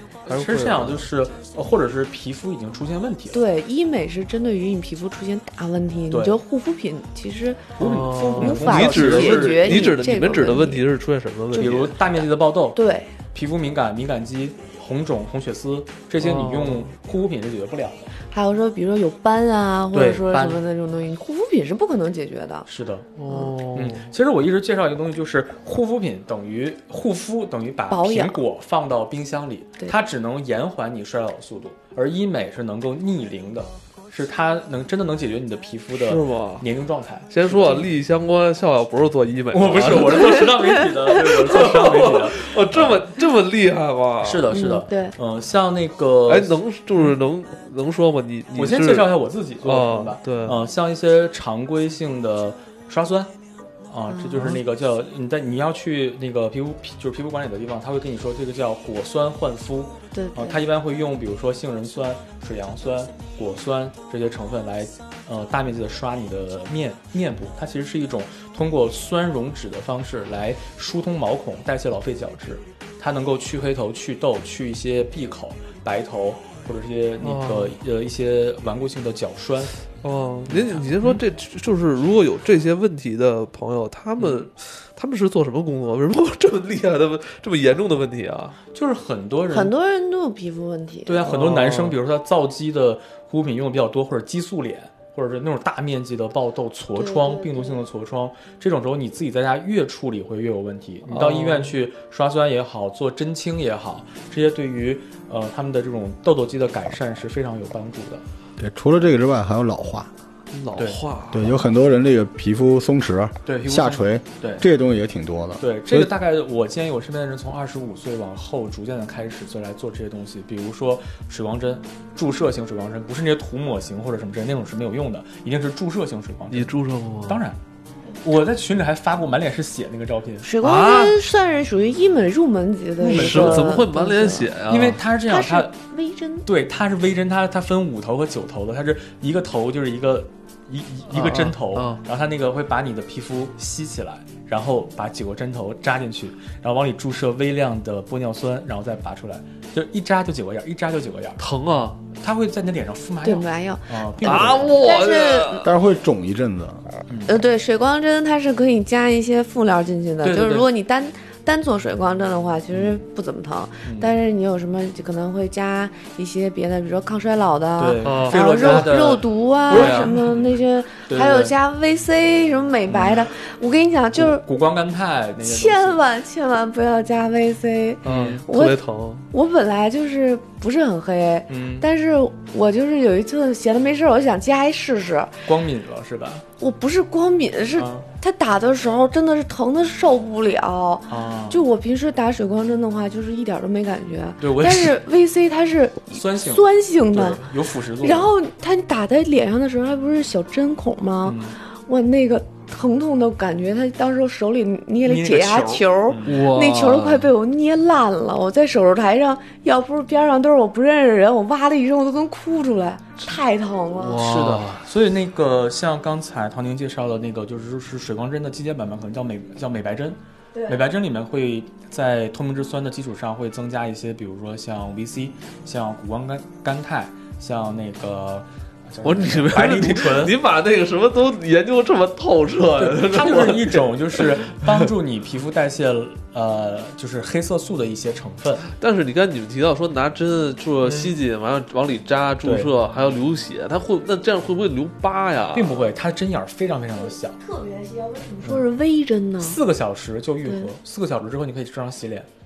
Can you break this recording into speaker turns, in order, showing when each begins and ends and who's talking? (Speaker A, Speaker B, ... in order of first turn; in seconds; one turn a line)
Speaker A: 0.2-3.4
Speaker B: 0.3-1.0
Speaker C: 3.3-7.8
Speaker A: 6.1-6.4
Speaker A: 7.8-9.9
Speaker B: 7.8-12.3
Speaker C: 8.3-10.8
Speaker A: 11.5-12.8
Speaker C: 12.7-13.1
Speaker A: 13.3-18.1
Speaker B: 16.2-16.9
Speaker C: 18.3-22.7
Speaker A: 19.9-20.6
Speaker A: 22.7-23.1
Speaker B: 23.2-24.1
Speaker C: 23.3-23.5
Speaker A: 23.7-37.8
Speaker C: 27.9-28.4
Speaker B: 35.9-36.7
Speaker B: 37.3-40.5
Speaker C: 37.5-37.9
Speaker A: 39.5-43.1
Speaker B: 41.1-44.5
Speaker A: 44.2-47.1
Speaker C: 44.5-45.1
Speaker B: 46.3-50.6
Speaker A: 48.5-53.3
Speaker A: 53.9-79.8
Speaker C: 54.1-54.6
Speaker C: 60.1-60.6
Speaker B: 77.2-77.8
Speaker B: 80.0-88.6
Speaker A: 80.5-81.2
Speaker A: 84.2-84.5
Speaker A: 88.7-89.7
Speaker C: 89.5-91.2
Speaker A: 91.0-108.2
Speaker B: 91.2-92.0
Speaker C: 97.0-97.9
Speaker B: 101.1-101.7
Speaker D: 108.6-110.1
Speaker B: 110.5-111.5
Speaker A: 110.7-111.0
Speaker D: 111.3-116.1
Speaker A: 113.5-114.7
Speaker A: 115.6-127.6
Speaker B: 126.5-127.5
Speaker A: 128.2-130.5
Speaker C: 130.4-134.5
Speaker B: 130.6-131.2
Speaker A: 133.0-133.8
Speaker B: 133.0-135.0
Speaker A: 134.7-135.8
Speaker C: 135.3-136.5
Speaker A: 136.4-151.4
Speaker B: 141.1-142.0
Speaker B: 151.4-152.0
Speaker A: 152.1-154.9
Speaker C: 153.2-155.7
Speaker B: 154.2-155.7
Speaker D: 155.6-156.8
Speaker A: 157.1-157.3
Speaker C: 157.2-174.4
Speaker A: 160.2-160.7
Speaker A: 162.7-163.0
Speaker A: 163.8-164.2
Speaker A: 167.8-170.5
Speaker B: 168.0-169.0
Speaker B: 169.7-170.1
Speaker A: 171.1-171.5
Speaker A: 172.9-173.2
Speaker A: 174.1-176.0
Speaker C: 175.4-185.4
Speaker A: 178.0-178.4
Speaker B: 178.0-179.2
Speaker A: 181.5-181.9
Speaker A: 185.4-186.4
Speaker C: 186.6-197.5
Speaker A: 187.8-188.1
Speaker A: 191.1-191.6
Speaker A: 194.4-195.0
Speaker A: 196.1-198.3
Speaker C: 198.0-214.3
Speaker A: 201.2-201.6
Speaker A: 205.0-206.3
Speaker B: 206.2-207.3
Speaker B: 214.0-214.8
Speaker A: 214.2-230.3
Speaker B: 229.0-234.8
Speaker A: 232.8-238.7
Speaker B: 238.7-245.8
Speaker A: 240.8-241.1
Speaker A: 242.4-242.7
Speaker A: 245.5-247.4
Speaker C: 247.0-249.6
Speaker A: 249.4-252.3